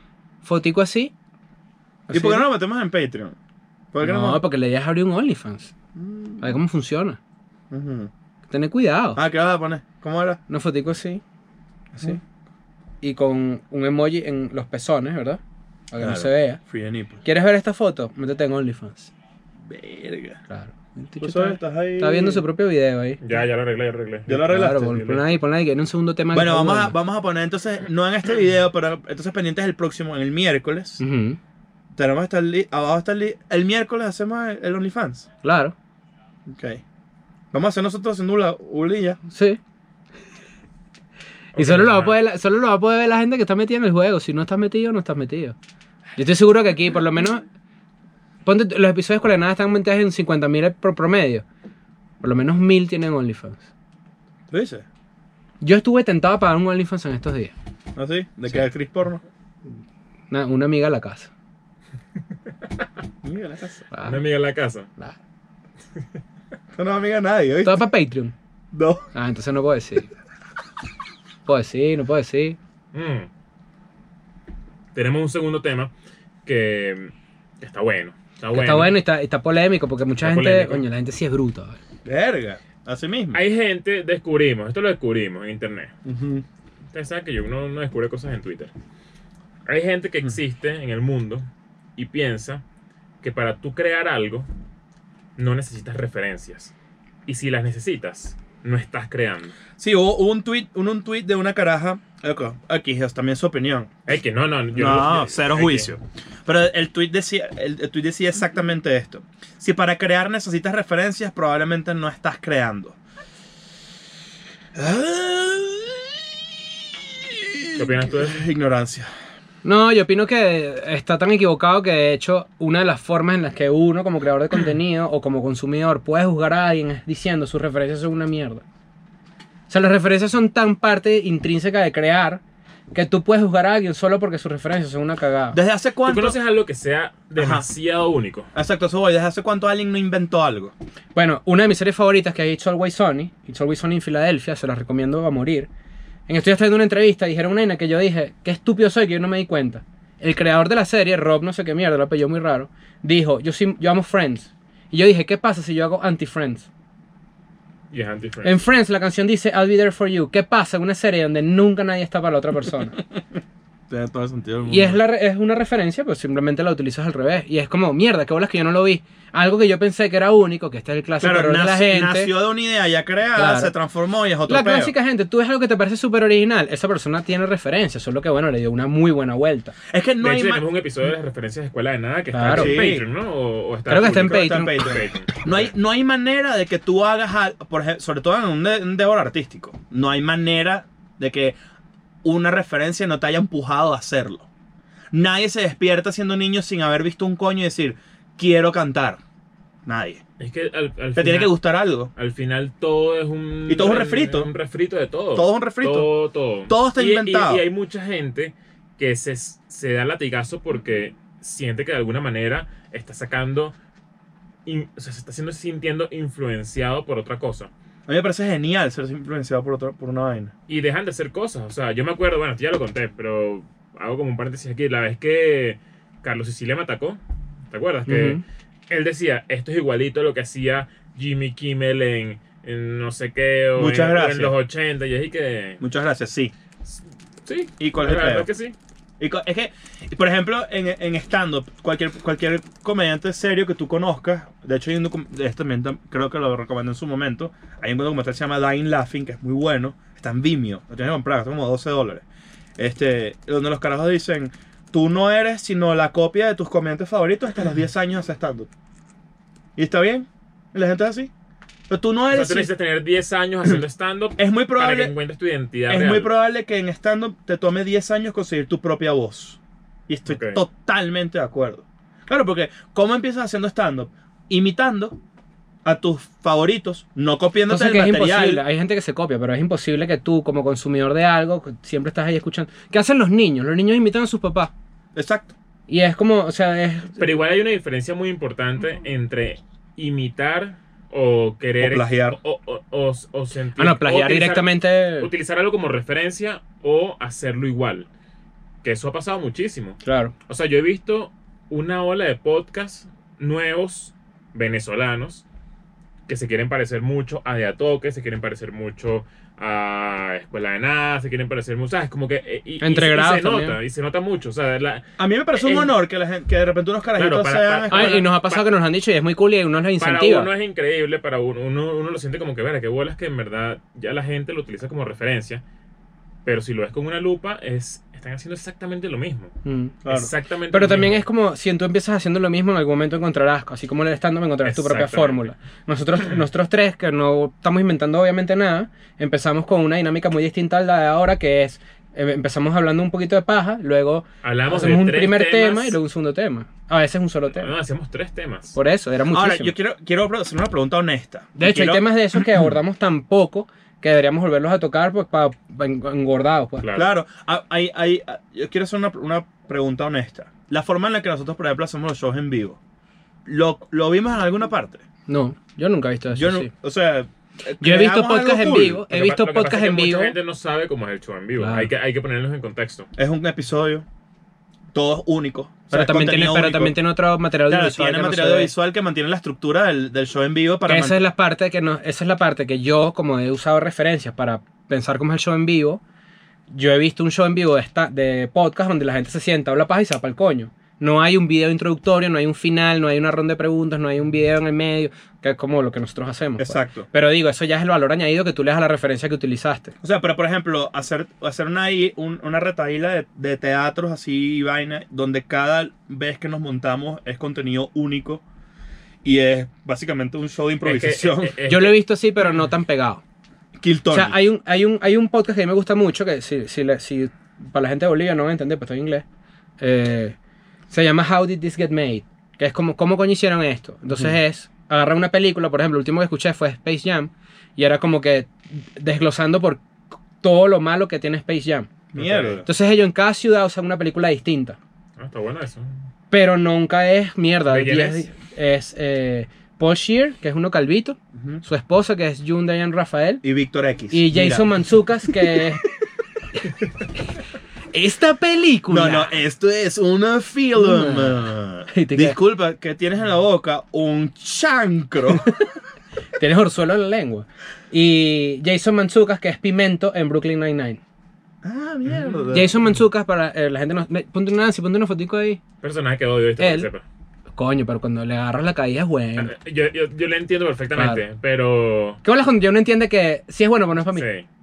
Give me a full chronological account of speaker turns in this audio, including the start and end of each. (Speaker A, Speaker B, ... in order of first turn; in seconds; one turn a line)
Speaker A: 0.4-1.1
Speaker A: 2.1-2.5
Speaker B: 2.1-3.4
Speaker B: 3.9-4.4
Speaker A: 4.0-5.7
Speaker B: 5.9-6.5
Speaker A: 6.4-7.2
Speaker B: 7.7-8.1
Speaker A: 8.5-9.2
Speaker B: 9.1-10.4
Speaker A: 10.5-11.2
Speaker B: 11.9-12.2
Speaker A: 13.0-15.4
Speaker A: 15.9-16.6
Speaker B: 16.0-17.2
Speaker A: 17.2-19.1
Speaker B: 19.6-20.4
Speaker A: 20.5-23.2
Speaker B: 21.2-22.4
Speaker C: 23.2-25.2
Speaker B: 24.2-25.0
Speaker A: 24.4-26.9
Speaker B: 26.3-31.0
Speaker A: 31.0-31.4
Speaker B: 31.9-35.3
Speaker A: 35.4-35.7
Speaker B: 36.5-36.8
Speaker B: 37.5-39.2
Speaker A: 39.3-39.6
Speaker C: 41.5-42.1
Speaker A: 41.5-45.5
Speaker A: 46.2-47.4
Speaker A: 48.4-51.4
Speaker A: 52.2-53.7
Speaker B: 54.5-54.8
Speaker A: 55.6-57.5
Speaker B: 58.0-59.2
Speaker A: 60.3-61.3
Speaker B: 63.2-63.8
Speaker A: 63.9-64.2
Speaker C: 64.0-64.9
Speaker B: 66.7-67.8
Speaker A: 67.6-68.3
Speaker B: 68.7-69.1
Speaker A: 69.1-70.1
Speaker A: 71.5-72.6
Speaker C: 72.9-73.3
Speaker C: 74.9-75.9
Speaker C: 76.5-79.0
Speaker A: 78.5-81.8
Speaker C: 80.2-80.8
Speaker B: 82.0-83.4
Speaker C: 83.3-85.9
Speaker B: 86.0-86.4
Speaker C: 86.9-88.7
Speaker C: 89.7-92.6
Speaker C: 93.2-94.5
Speaker C: 95.4-96.7
Speaker C: 97.2-99.5
Speaker B: 99.8-103.9
Speaker C: 104.1-105.9
Speaker B: 104.7-113.0
Speaker B: 114.7-116.2
Speaker B: 116.9-119.1
Speaker C: 117.7-118.4
Speaker A: 119.6-128.6
Speaker A: 129.7-132.4
Speaker A: 132.9-135.6
Speaker B: 135.5-136.4
Speaker C: 136.0-138.5
Speaker B: 137.4-137.7
Speaker B: 138.5-140.7
Speaker A: 141.1-145.7
Speaker A: 146.3-156.7
Speaker C: 157.9-158.6
Speaker A: 158.4-163.0
Speaker B: 163.9-165.0
Speaker A: 164.7-172.3
Speaker B: 171.2-174.9
Speaker A: 173.3-173.7
Speaker A: 174.5-179.8
Speaker B: 179.9-180.6
Speaker C: 180.2-185.7
Speaker A: 182.3-182.8
Speaker B: 182.5-183.0
Speaker A: 183.9-184.8
Speaker B: 184.0-191.5
Speaker B: 192.2-194.4
Speaker B: 195.1-199.2
Speaker B: 199.8-200.2
Speaker C: 200.4-201.5
Speaker B: 201.2-202.1
Speaker C: 202.1-213.7
Speaker B: 203.7-204.5
Speaker B: 205.3-206.1
Speaker B: 206.7-207.6
Speaker C: 214.7-217.7
Speaker B: 218.1-220.5
Speaker C: 220.7-235.8
Speaker A: 228.1-228.4
Speaker B: 233.8-234.5
Speaker B: 235.8-236.5
Speaker C: 236.8-238.7
Speaker B: 237.8-238.5
Speaker B: 239.2-252.2
Speaker B: 252.8-258.7
Speaker B: 259.8-261.3
Speaker B: 261.9-262.7
Speaker C: 262.3-266.3
Speaker B: 264.4-265.1
Speaker B: 265.9-275.2
Speaker C: 270.3-270.6
Speaker B: 275.8-278.6
Speaker A: 277.7-284.7
Speaker B: 285.1-285.5
Speaker A: 285.9-287.2
Speaker C: 287.1-298.1
Speaker B: 291.8-292.4
Speaker A: 293.8-295.3
Speaker C: 298.8-305.4
Speaker A: 300.0-300.3
Speaker C: 306.3-315.9
Speaker A: 312.8-313.8
Speaker B: 315.2-318.3
Speaker C: 317.1-318.6
Speaker A: 317.9-320.5
Speaker C: 320.0-325.6
Speaker C: 326.4-329.5
Speaker A: 329.6-329.9
Speaker B: 330.0-330.3
Speaker C: 330.1-331.2
Speaker A: 330.7-347.7
Speaker C: 334.6-335.5
Speaker C: 344.4-346.0
Speaker C: 347.5-348.8
Speaker A: 348.7-349.7
Speaker B: 349.3-352.1
Speaker A: 351.6-356.9
Speaker C: 356.8-357.1
Speaker B: 356.9-362.8
Speaker B: 363.4-365.0
Speaker A: 365.3-366.7
Speaker B: 366.3-369.0
Speaker A: 367.8-370.3
Speaker C: 369.1-373.1
Speaker A: 371.6-371.9
Speaker B: 373.2-374.0
Speaker B: 374.9-377.0
Speaker A: 375.9-378.7
Speaker B: 377.7-381.2
Speaker A: 380.9-386.0
Speaker A: 386.7-399.9
Speaker B: 396.6-397.1
Speaker B: 400.0-408.4
Speaker B: 409.2-411.5
Speaker C: 410.8-411.9
Speaker A: 411.7-413.2
Speaker B: 413.8-414.4
Speaker A: 414.1-419.2
Speaker A: 419.8-420.4
Speaker A: 420.9-431.9
Speaker B: 432.1-432.6
Speaker C: 432.1-432.6
Speaker A: 432.6-434.8
Speaker C: 435.2-436.0
Speaker A: 436.3-443.4
Speaker C: 437.7-438.3
Speaker B: 441.3-441.6
Speaker B: 443.4-445.3
Speaker A: 444.1-445.9
Speaker A: 447.9-449.3
Speaker B: 448.9-455.5
Speaker A: 450.8-452.4
Speaker A: 455.4-455.6
Speaker A: 456.4-461.0
Speaker B: 461.6-462.8
Speaker C: 462.1-462.4
Speaker A: 462.5-465.6
Speaker C: 465.8-467.0
Speaker A: 466.6-466.9
Speaker A: 467.6-469.5
Speaker C: 469.4-472.2
Speaker A: 470.9-471.2
Speaker A: 472.2-474.2
Speaker C: 474.1-474.4